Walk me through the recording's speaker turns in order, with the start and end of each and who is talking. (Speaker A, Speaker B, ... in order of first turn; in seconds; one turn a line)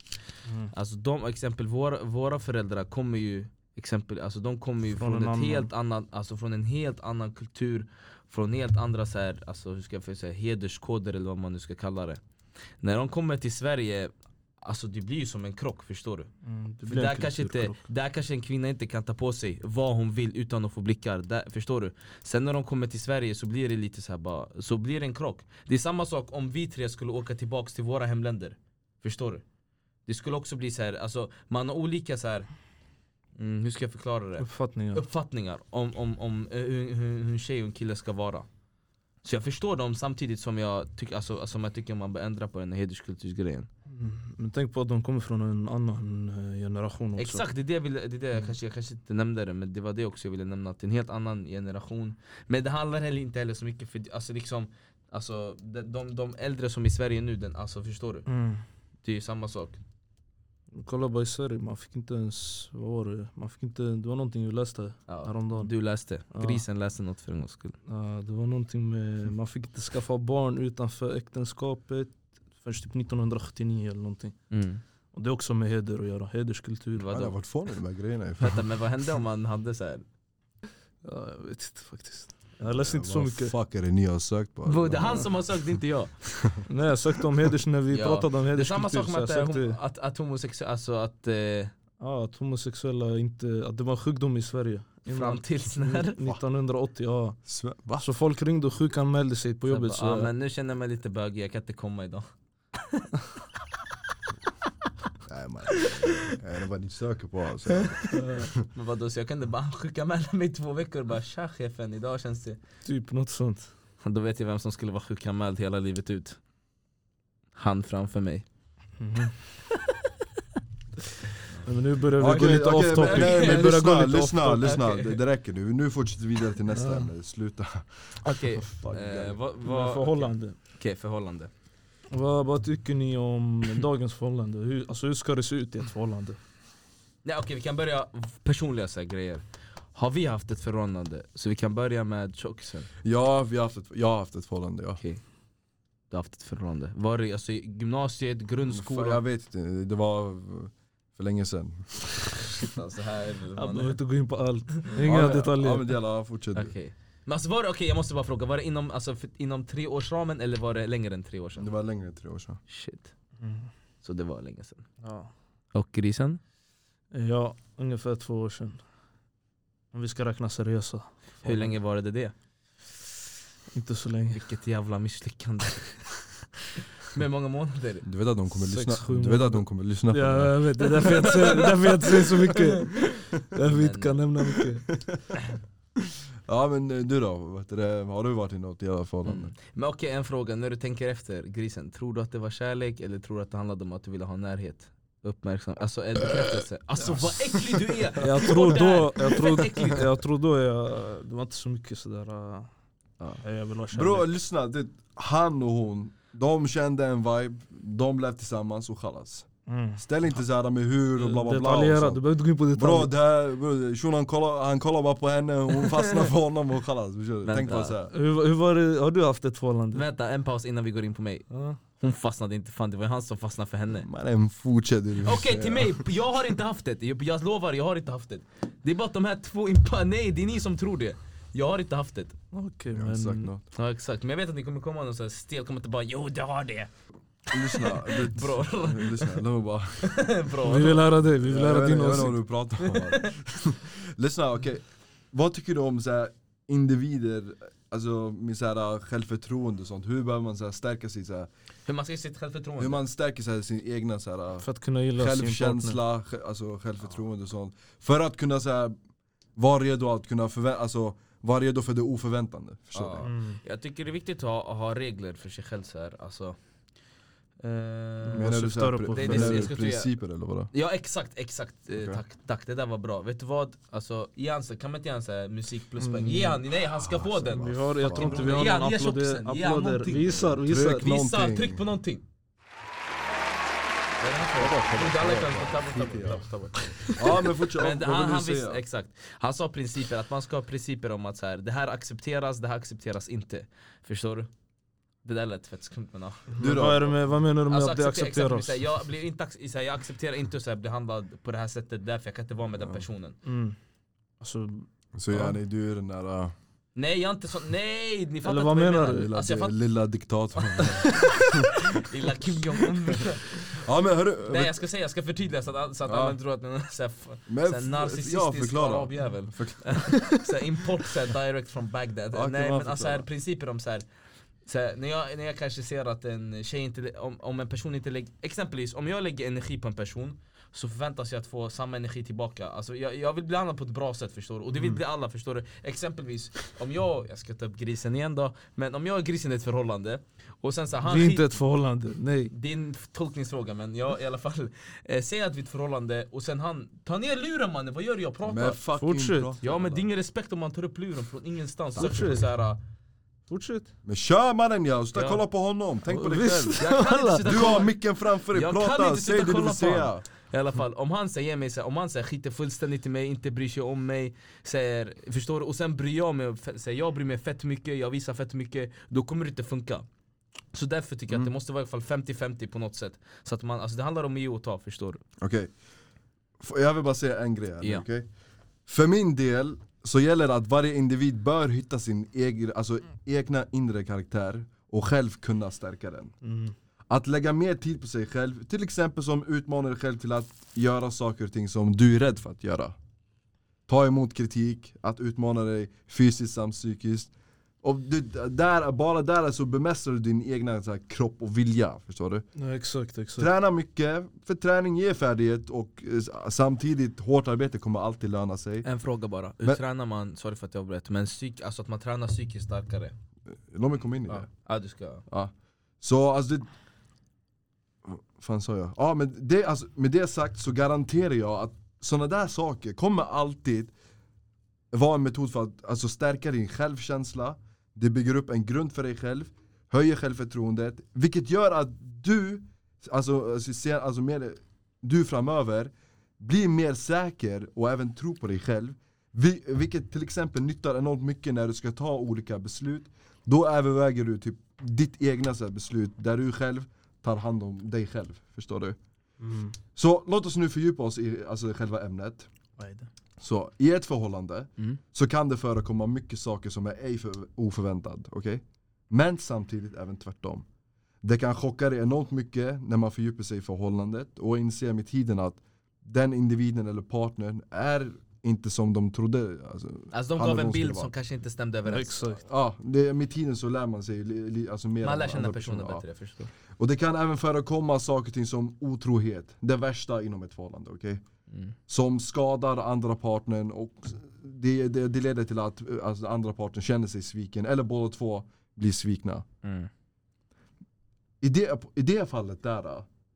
Speaker A: 0.5-0.7
Speaker B: 0.7-12.2
Speaker A: 5.0-5.7
Speaker B: 12.8-16.3
Speaker A: 16.4-17.8
Speaker B: 16.9-29.4
Speaker B: 30.1-32.5
Speaker B: 33.4-38.5
Speaker A: 34.4-35.0
Speaker B: 39.2-43.7
Speaker A: 43.9-47.5
Speaker B: 47.2-58.3
Speaker A: 58.3-58.6
Speaker B: 59.0-59.8
Speaker A: 60.7-65.7
Speaker B: 65.1-67.8
Speaker A: 66.3-66.6
Speaker A: 67.9-74.3
Speaker B: 74.5-74.8
Speaker A: 75.1-77.1
Speaker B: 77.0-77.3
Speaker C: 77.1-78.7
Speaker B: 78.4-80.0
Speaker A: 81.0-83.5
Speaker C: 82.6-85.3
Speaker B: 84.7-86.2
Speaker C: 86.3-86.6
Speaker A: 86.7-89.8
Speaker B: 87.9-91.7
Speaker A: 92.0-97.4
Speaker B: 95.1-96.2
Speaker C: 97.5-98.1
Speaker A: 98.0-100.3
Speaker B: 99.7-102.2
Speaker C: 105.2-108.6
Speaker B: 105.7-106.4
Speaker B: 107.7-112.6
Speaker A: 108.1-108.5
Speaker A: 112.8-113.7
Speaker B: 114.0-116.4
Speaker B: 117.6-118.5
Speaker A: 119.0-119.3
Speaker A: 121.6-124.7
Speaker C: 122.2-129.4
Speaker B: 123.0-123.7
Speaker B: 124.6-125.2
Speaker A: 126.7-127.1
Speaker B: 128.2-131.5
Speaker A: 129.7-130.6
Speaker A: 132.1-136.4
Speaker B: 137.2-139.4
Speaker B: 139.9-142.9
Speaker C: 143.0-145.0
Speaker B: 146.1-149.2
Speaker C: 148.7-152.5
Speaker B: 152.4-154.0
Speaker A: 153.6-155.9
Speaker C: 155.0-156.8
Speaker B: 156.6-161.7
Speaker C: 161.6-162.6
Speaker B: 162.7-163.1
Speaker A: 163.4-163.7
Speaker B: 164.0-164.9
Speaker A: 165.0-165.3
Speaker B: 165.7-166.4
Speaker A: 167.1-168.8
Speaker A: 169.9-171.7
Speaker B: 171.4-172.3
Speaker A: 173.7-174.4
Speaker B: 174.3-175.9
Speaker B: 177.1-178.1
Speaker C: 178.0-180.6
Speaker A: 178.5-184.9
Speaker B: 180.8-184.3
Speaker C: 184.9-185.3
Speaker C: 186.5-189.5
Speaker B: 189.2-200.1
Speaker C: 197.1-197.6
Speaker A: 198.2-202.7
Speaker C: 203.2-212.2
Speaker A: 203.4-204.3
Speaker A: 209.7-210.0
Speaker A: 211.2-213.1
Speaker C: 212.7-218.1
Speaker B: 217.4-218.0
Speaker A: 218.1-220.0
Speaker B: 219.9-221.5
Speaker A: 221.5-221.8
Speaker B: 222.0-224.1
Speaker C: 224.1-226.1
Speaker B: 225.2-232.4
Speaker A: 232.5-233.5
Speaker C: 232.9-233.6
Speaker B: 233.8-236.9
Speaker C: 237.5-240.1
Speaker B: 237.5-239.4
Speaker B: 240.0-241.1
Speaker A: 240.6-242.4
Speaker C: 241.4-251.5
Speaker B: 242.8-243.3
Speaker B: 251.9-253.0
Speaker C: 252.8-254.7
Speaker A: 254.6-256.0
Speaker C: 255.2-259.0
Speaker C: 259.6-263.3
Speaker B: 262.9-266.6
Speaker A: 263.2-263.6
Speaker B: 267.6-268.5
Speaker A: 268.3-269.7
Speaker C: 268.4-270.7
Speaker B: 269.1-270.1
Speaker B: 270.7-282.2
Speaker C: 272.0-272.2
Speaker A: 276.0-276.6
Speaker C: 277.0-278.7
Speaker A: 277.5-281.1
Speaker C: 280.5-281.8
Speaker B: 284.2-294.5
Speaker C: 284.6-286.5
Speaker C: 287.0-288.8
Speaker B: 295.2-296.6
Speaker A: 296.6-298.8
Speaker C: 296.6-297.2
Speaker B: 297.7-303.4
Speaker A: 303.4-303.8
Speaker A: 304.4-305.6
Speaker C: 305.2-306.5
Speaker B: 307.0-309.7
Speaker A: 308.4-309.3
Speaker C: 309.1-312.1
Speaker B: 310.6-313.7
Speaker C: 313.1-314.8
Speaker B: 314.5-324.1
Speaker C: 316.1-316.4
Speaker C: 317.5-320.1
Speaker C: 322.3-323.3
Speaker B: 324.7-341.5
Speaker A: 341.1-342.5
Speaker B: 342.5-348.8
Speaker C: 348.4-350.1
Speaker A: 349.0-349.6
Speaker B: 349.6-352.8
Speaker A: 352.0-352.5
Speaker A: 353.5-353.9
Speaker C: 354.1-356.9
Speaker B: 355.1-355.4
Speaker A: 356.1-357.7
Speaker B: 356.8-358.0
Speaker C: 357.4-360.2
Speaker B: 358.5-370.1
Speaker B: 370.7-375.2
Speaker C: 375.4-375.7
Speaker C: 376.6-378.3
Speaker C: 378.9-386.4
Speaker A: 386.4-386.7
Speaker C: 387.1-392.9
Speaker C: 393.9-397.3
Speaker C: 397.8-402.4
Speaker A: 402.6-403.5
Speaker C: 403.4-408.9
Speaker B: 408.8-413.1
Speaker C: 413.7-414.5
Speaker B: 414.3-415.2
Speaker C: 415.3-416.7
Speaker C: 418.1-423.9
Speaker C: 424.9-449.0
Speaker A: 449.4-449.7
Speaker C: 450.0-452.5
Speaker C: 453.4-460.6
Speaker C: 461.2-471.1
Speaker B: 470.1-472.4
Speaker A: 471.9-472.4
Speaker C: 472.5-476.0
Speaker B: 475.0-476.5
Speaker C: 476.8-481.2
Speaker C: 481.9-489.4
Speaker B: 489.6-489.9
Speaker C: 491.4-493.1